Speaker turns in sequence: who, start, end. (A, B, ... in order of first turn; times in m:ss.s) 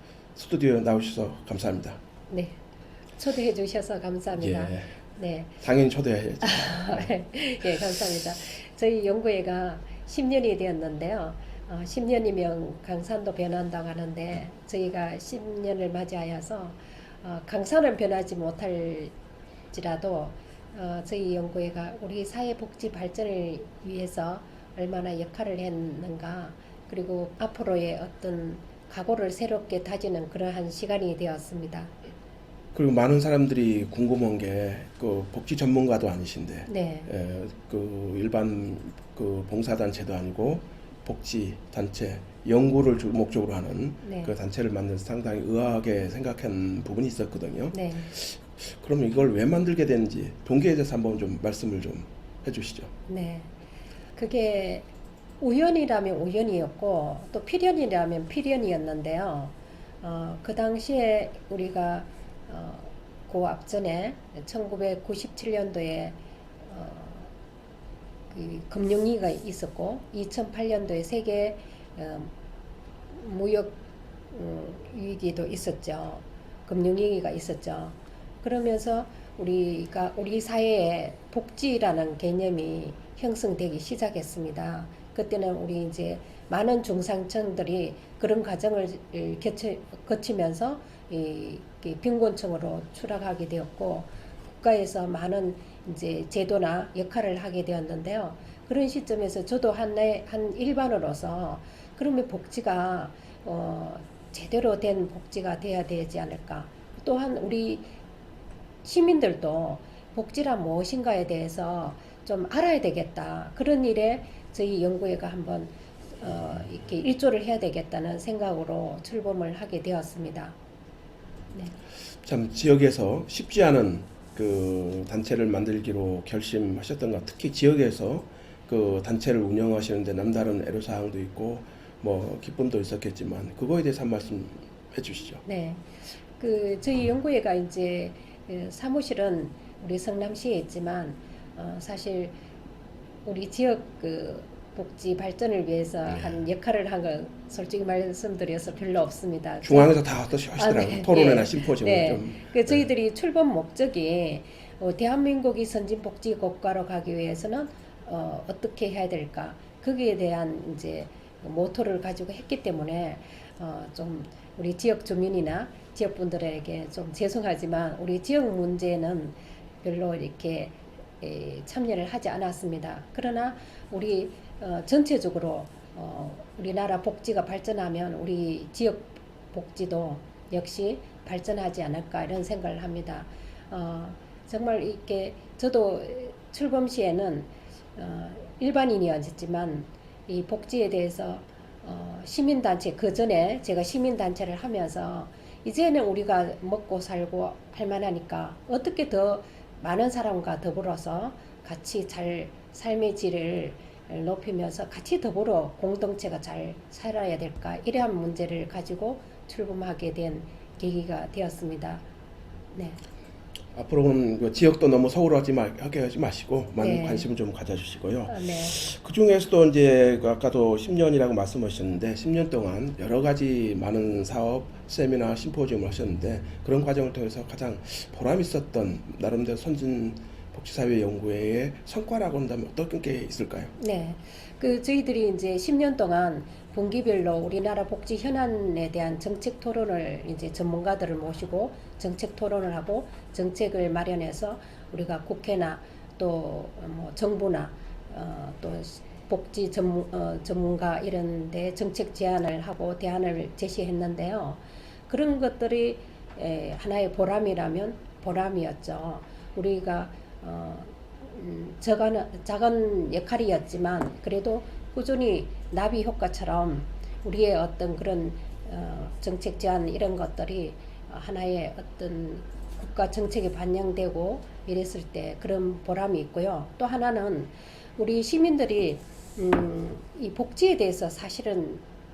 0:00.3-0:02.0 A
0:02.3-0:02.6 B
0:03.2-0:05.6 B
0:04.4-0:04.9 A
0:05.6-0:07.1 A
0:06.4-0:19.1 B
0:19.7-0:32.1 B
0:32.7-0:52.9 A
0:36.7-0:37.1 B
0:44.0-0:44.3 B
0:47.7-0:48.1 B
0:53.1-0:53.5 B
0:54.2-0:54.9 B
0:55.4-1:07.3 B
1:08.3-1:12.3 B
1:13.1-1:13.8 B
1:14.3-1:47.9 B
1:48.8-2:00.6 B
2:02.2-2:15.4 A
2:15.4-2:22.3 B
2:23.2-2:29.9 B
2:29.6-2:32.8 A
2:30.6-3:32.0 B
3:32.7-3:33.0 B
3:33.7-3:53.7 A
3:36.8-3:37.3 B
3:38.3-3:38.8 B
3:53.8-4:41.8 B